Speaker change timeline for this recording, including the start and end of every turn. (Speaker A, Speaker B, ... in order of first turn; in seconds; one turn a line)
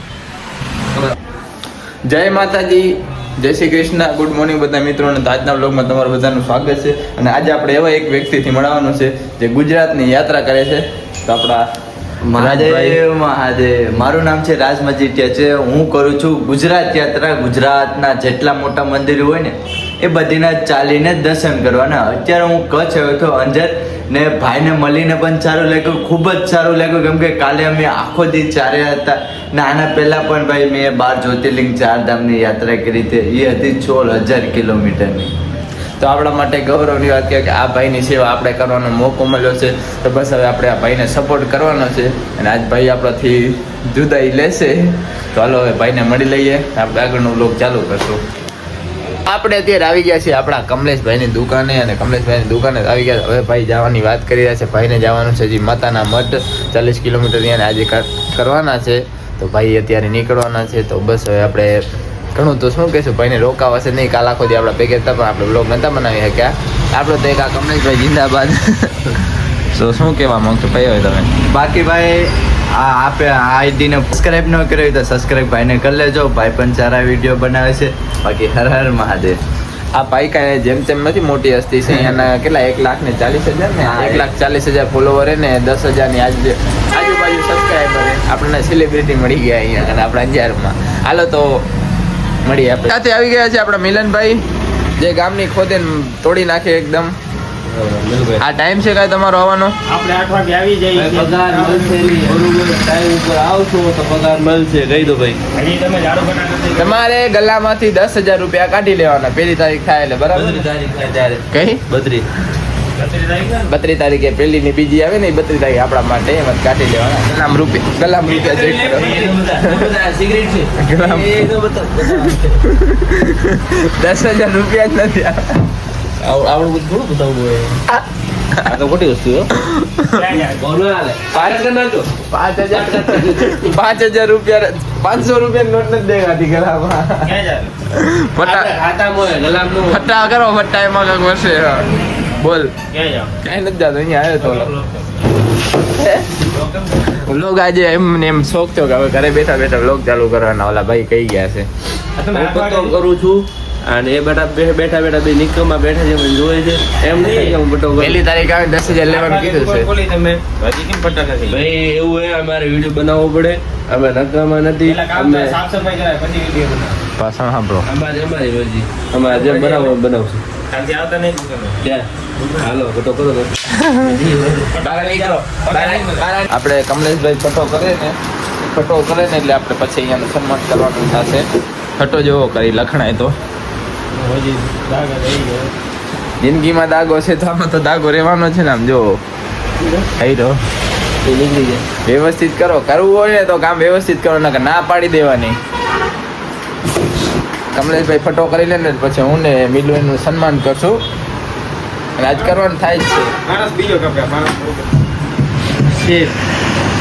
Speaker A: 2.1-2.9
Speaker A: 3.4-11.6
Speaker B: 12.3-35.3
Speaker A: 12.4-12.9
Speaker A: 36.0-48.2
Speaker A: 49.3-61.7
Speaker A: 62.3-69.1
Speaker A: 69.7-71.3
Speaker B: 71.4-79.4
Speaker A: 79.9-91.6
Speaker B: 83.8-84.2
Speaker A: 92.5-94.4
Speaker A: 95.0-97.1
Speaker C: 97.7-98.4
Speaker A: 98.4-99.7
Speaker D: 99.9-102.0
Speaker C: 100.9-105.4
Speaker D: 105.5-107.0
Speaker A: 106.7-110.6
Speaker C: 110.3-112.2
Speaker A: 111.5-111.8
Speaker D: 113.0-113.7
Speaker A: 113.7-119.9
Speaker C: 118.2-122.6
Speaker D: 119.1-119.4
Speaker A: 120.8-121.4
Speaker A: 122.7-125.5
Speaker C: 126.2-127.8
Speaker C: 128.6-129.5
Speaker A: 129.6-130.2
Speaker D: 130.1-130.6
Speaker C: 130.6-132.1
Speaker A: 131.3-131.6
Speaker A: 132.3-137.3
Speaker C: 132.7-133.7
Speaker D: 137.2-137.7
Speaker A: 137.9-138.7
Speaker C: 138.4-140.1
Speaker A: 139.9-142.7
Speaker D: 142.9-143.3
Speaker A: 143.4-144.7
Speaker A: 145.8-146.3
Speaker C: 146.5-147.2
Speaker A: 147.2-151.7
Speaker D: 152.2-152.9
Speaker C: 152.3-158.2
Speaker D: 157.2-157.5
Speaker A: 158.0-159.9
Speaker D: 158.9-161.6
Speaker C: 161.5-165.6
Speaker D: 164.8-167.0
Speaker A: 167.2-167.8
Speaker C: 167.9-170.4
Speaker D: 169.3-169.9
Speaker D: 170.7-171.8
Speaker C: 171.8-173.5
Speaker A: 173.7-174.2
Speaker C: 174.0-174.9
Speaker A: 174.8-181.4
Speaker D: 175.0-176.2
Speaker A: 182.0-183.3
Speaker C: 184.2-185.1
Speaker D: 184.2-185.6
Speaker A: 186.4-189.2
Speaker A: 190.2-190.6
Speaker C: 191.2-191.8
Speaker A: 192.0-195.6
Speaker A: 197.7-201.0
Speaker A: 202.2-203.3
Speaker D: 203.4-204.8
Speaker C: 205.9-206.3